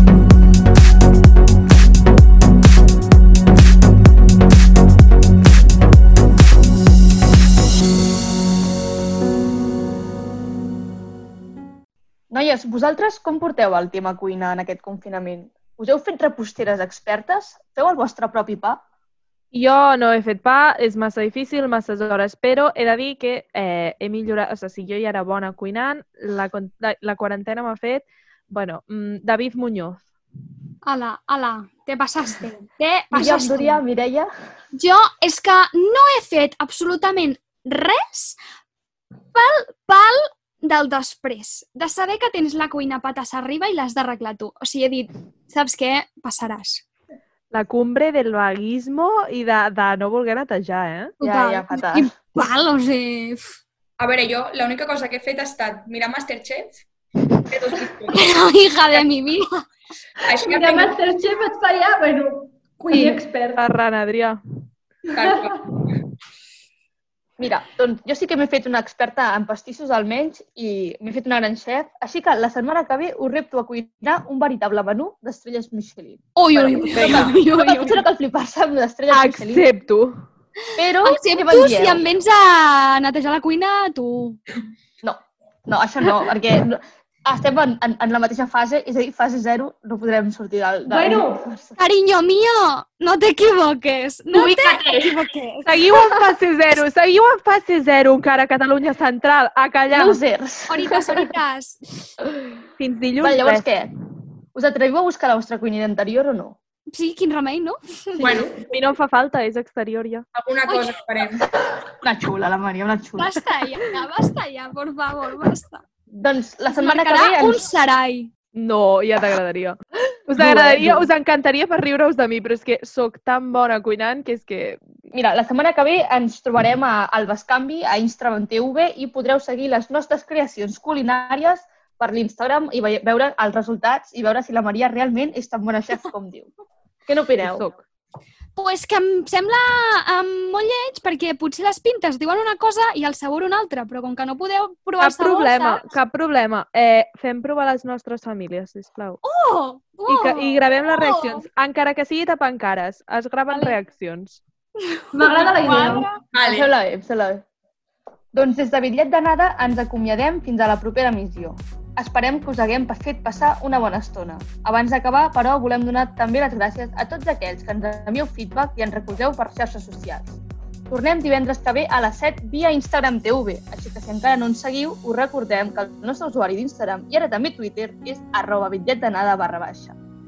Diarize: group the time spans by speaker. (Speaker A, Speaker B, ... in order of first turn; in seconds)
Speaker A: 12.3-18.8, 33.1-34.3, 51.2-52.1, 67.4-79.7, 80.8-82.0, 85.0-91.7, 99.9-101.3, 103.2-103.9, 104.5-106.6, 112.0-113.3, 116.1-117.7, 120.4-121.1, 125.1-136.5, 137.1-137.7, 156.5-157.4, 158.3-180.0
Speaker B: 19.5-30.0, 47.5-51.1, 62.9-64.4, 79.1-80.2, 95.7-100.2, 102.8-103.7, 108.2-110.2, 118.6-124.8, 137.4-137.8, 145.0-149.2, 150.1-154.4
Speaker C: 30.9-33.8, 34.7-38.4, 39.3-46.8, 51.2-53.5, 58.1-59.6, 76.4-78.0, 81.0-84.4, 91.8-95.8, 100.7-101.8, 106.9-108.4, 110.7-111.0, 113.2-115.8, 116.7-118.3, 138.6-145.9, 149.2-151.4, 153.5-153.8, 154.9-156.2
Speaker D: 54.0-56.9, 57.5-58.2, 60.3-61.0, 65.1-65.5, 94.3-95.2, 108.2-108.5, 110.3-111.5, 156.3-156.7
Speaker E: 60.5-63.6, 65.1-65.4, 90.9-91.5, 155.1-156.1